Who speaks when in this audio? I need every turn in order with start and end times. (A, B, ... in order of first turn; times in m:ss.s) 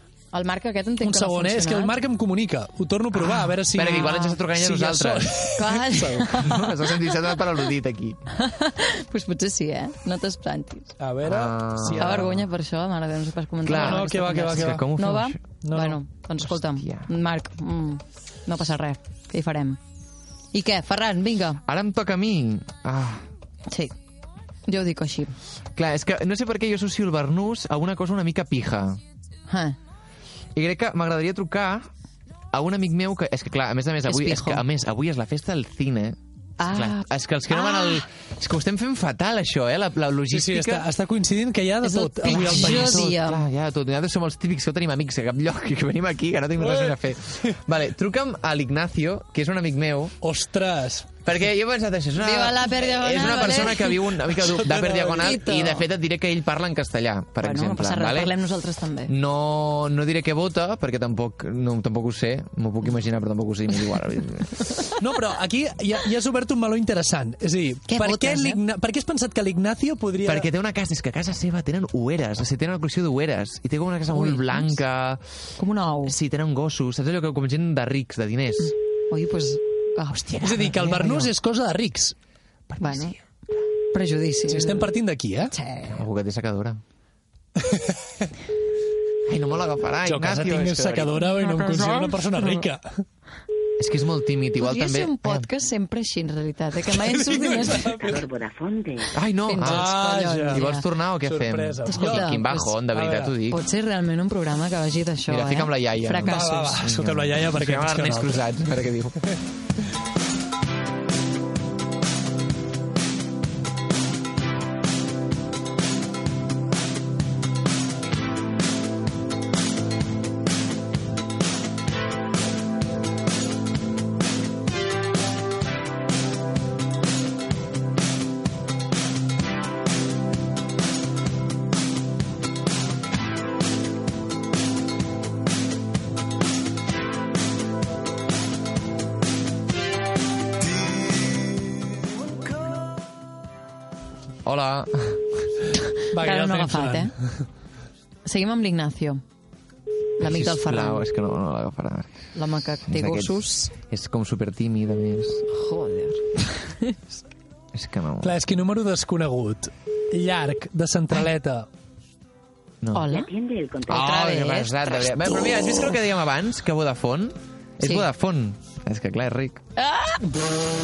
0:00.3-0:02.0 A
0:01.0-0:06.5 B
0:03.7-0:05.4 C
0:03.8-0:04.4 A
0:05.6-0:07.1 A
0:06.3-0:08.2 C
0:08.3-0:11.0 A
0:11.0-0:12.3 B
0:11.2-0:12.4 C
0:11.9-0:19.8 A
0:13.6-0:15.4 C
0:13.7-0:15.0 B
0:15.5-0:16.0 B
0:16.6-0:17.1 C
0:20.5-0:21.6 A
0:21.6-0:23.3 C
0:23.7-0:23.9 A
0:24.7-0:25.3 A
0:25.8-0:29.0 C
0:29.5-0:29.8 A
0:30.5-0:31.9 C
0:32.5-0:40.9 C
0:34.0-0:34.6 A
0:36.6-0:38.0 A
0:40.3-0:43.2 B
0:41.8-0:43.4 A
0:42.2-0:50.1 C
0:46.6-0:47.6 B
0:50.2-0:51.2 B
0:51.2-0:58.3 C
0:52.2-0:54.0 A
0:54.3-0:55.4 B
0:55.1-0:55.9 A
0:57.4-0:59.1 A
0:59.1-1:04.7 C
1:05.0-1:10.5 B
1:07.9-1:08.6 A
1:10.2-1:15.2 C
1:14.1-1:14.8 A
1:15.6-1:16.2 A
1:16.0-1:18.7 C
1:18.6-1:21.3 A
1:20.3-1:20.7 C
1:20.4-1:22.1 B
1:22.7-1:23.2 C
1:22.8-1:23.2 A
1:23.9-1:24.9 A
1:24.5-1:25.5 B
1:25.5-1:26.0 A
1:25.9-1:26.8 C
1:27.6-1:28.2 B
1:29.3-1:31.2 C
1:30.0-1:33.0 B
1:31.2-1:32.6 A
1:33.8-1:35.5 C
1:34.6-1:38.0 A
1:36.8-1:38.2 B
1:38.0-1:39.2 D
1:39.1-1:39.9 C
1:39.5-1:40.8 A
1:39.6-1:40.6 B
1:40.5-1:43.6 C
1:41.2-1:42.3 B
1:41.8-1:42.7 A
1:42.9-1:43.3 B
1:43.5-1:46.8 A
1:45.3-1:49.2 C
1:46.2-1:48.5 B
2:24.4-2:25.4 C
2:26.1-2:27.4 B
2:26.1-2:27.1 A
2:28.2-2:29.2 A
2:30.2-2:31.0 A
2:30.2-2:32.2 C
2:32.3-2:33.7 A
2:32.8-2:35.4 C
2:35.5-2:37.0 A
2:37.7-2:38.4 C
2:38.2-2:41.7 B
2:42.9-2:43.3 A
2:43.1-2:44.1 D
2:43.9-2:45.0 A
2:43.9-2:49.6 C
2:47.8-2:48.1 A
2:49.8-2:50.2 A